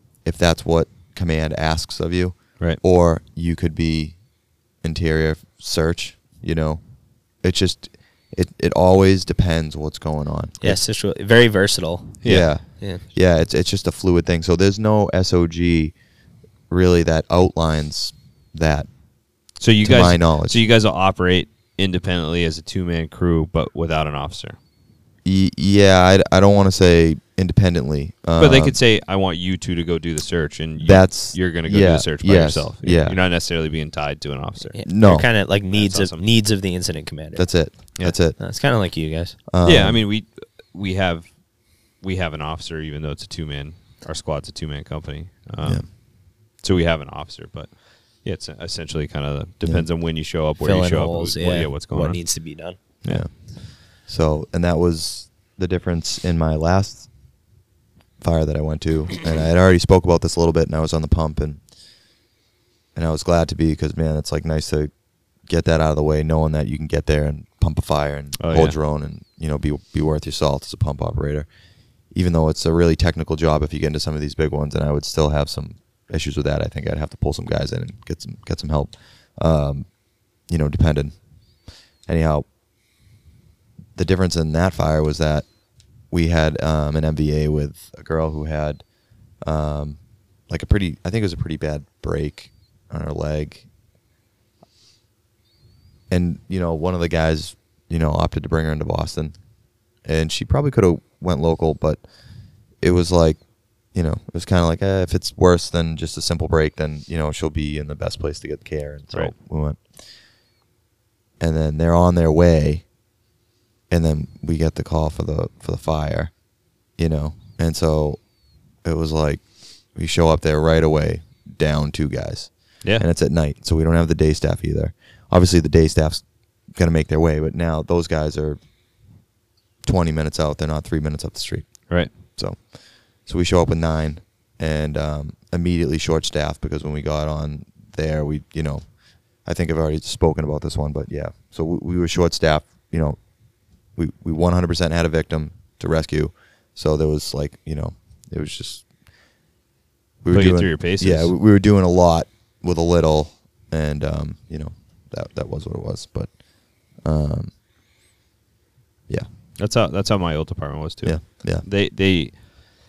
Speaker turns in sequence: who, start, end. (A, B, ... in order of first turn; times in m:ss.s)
0:00.2-0:10.8 A
0:10.6-0:13.0 B
0:12.2-0:12.5 C
0:12.2-0:16.0 A
0:16.7-0:20.7 A
0:19.6-0:24.6 C
0:25.2-0:28.8 A
0:28.4-0:36.3 C
0:30.8-0:33.2 A
0:34.6-0:39.4 B
0:34.8-0:35.3 A
0:37.4-0:38.4 A
0:39.5-0:40.1 A
0:39.6-0:53.3 C
0:49.6-0:49.9 A
0:50.6-0:53.0 B
0:53.0-0:57.4 A
0:58.2-1:01.8 A
1:02.9-1:22.5 A
1:08.4-1:08.8 C
1:24.0-1:33.7 A
1:36.1-1:50.0 A
1:51.4-1:53.0 A
1:53.9-2:09.2 A
2:09.8-2:29.2 A
2:11.9-2:12.1 C
2:30.2-2:37.6 A
2:30.3-2:31.4 C
2:39.6-2:42.4 C
2:41.0-2:41.7 A